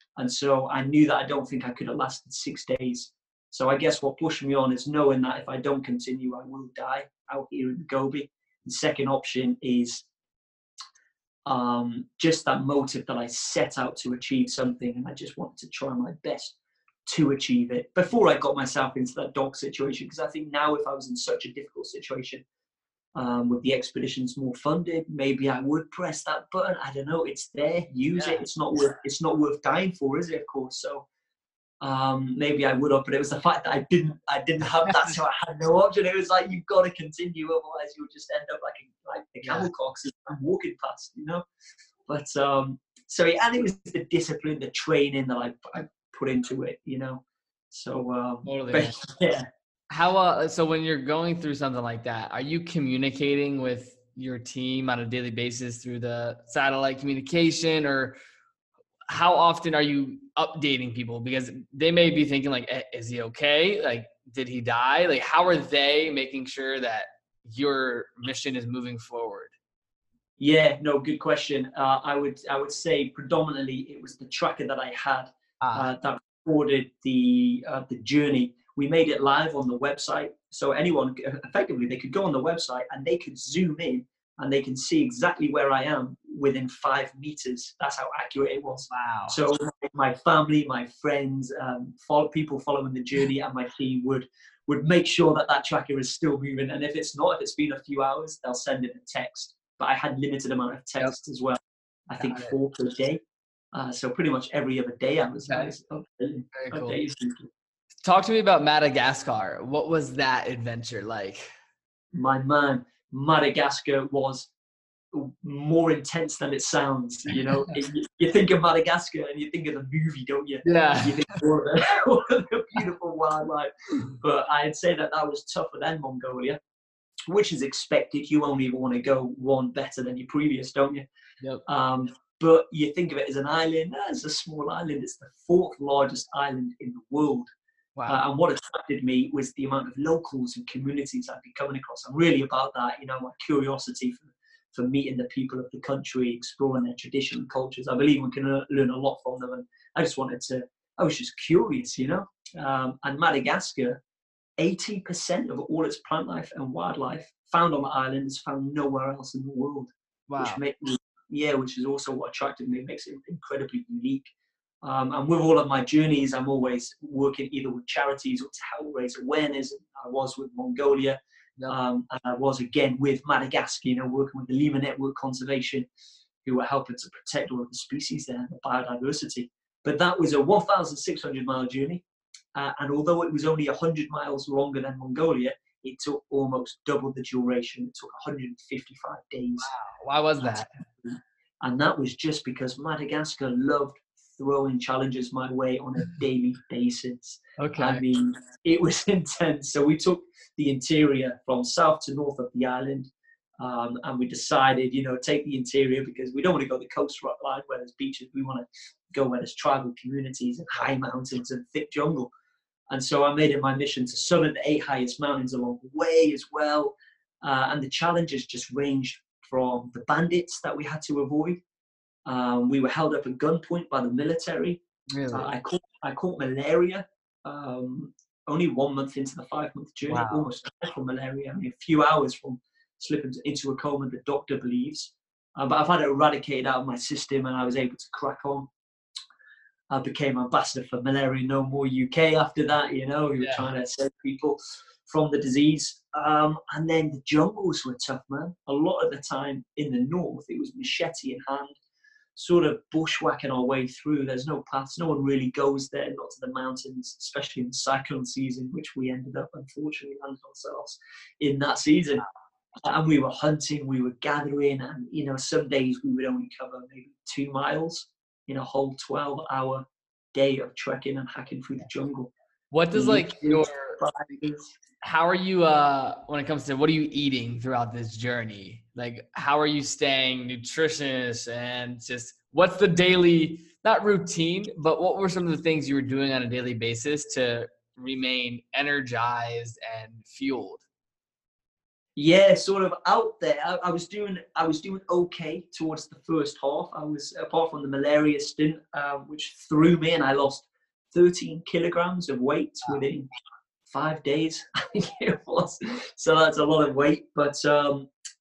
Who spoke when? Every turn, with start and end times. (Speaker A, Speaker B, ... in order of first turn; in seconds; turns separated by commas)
Speaker A: 0.2-10.1, Speaker A: 11.5-16.6, Speaker A: 17.1-22.4, Speaker A: 23.2-31.1, Speaker B: 28.1-28.4, Speaker A: 31.8-41.4, Speaker B: 34.9-35.1, Speaker B: 39.4-39.7, Speaker A: 42.1-49.5, Speaker B: 48.5-49.0, Speaker B: 49.9-58.2, Speaker B: 59.1-69.5, Speaker A: 70.4-103.2, Speaker B: 75.6-75.9, Speaker B: 88.9-89.4, Speaker B: 102.2-102.6, Speaker A: 103.7-107.5, Speaker B: 105.5-105.7, Speaker B: 106.5-107.0, Speaker B: 108.0-111.5, Speaker A: 112.1-114.5, Speaker A: 115.1-126.6, Speaker B: 117.3-117.8, Speaker B: 120.7-121.2, Speaker A: 127.3-131.1, Speaker A: 131.7-137.5, Speaker A: 138.1-154.0, Speaker A: 154.6-164.3, Speaker B: 160.3-160.6, Speaker A: 164.8-171.2, Speaker A: 171.7-175.9, Speaker A: 176.4-182.0, Speaker A: 182.6-189.7, Speaker B: 189.6-190.7, Speaker A: 190.4-212.3, Speaker B: 197.6-198.0, Speaker A: 212.9-221.6, Speaker A: 222.3-224.8, Speaker B: 225.1-225.5, Speaker A: 225.3-238.7, Speaker B: 230.1-230.5, Speaker A: 239.9-251.8, Speaker B: 243.4-243.7, Speaker A: 252.4-262.2, Speaker A: 262.8-272.3, Speaker B: 272.7-274.0, Speaker A: 272.9-274.8, Speaker B: 275.0-290.9, Speaker A: 292.2-303.3, Speaker A: 303.9-308.1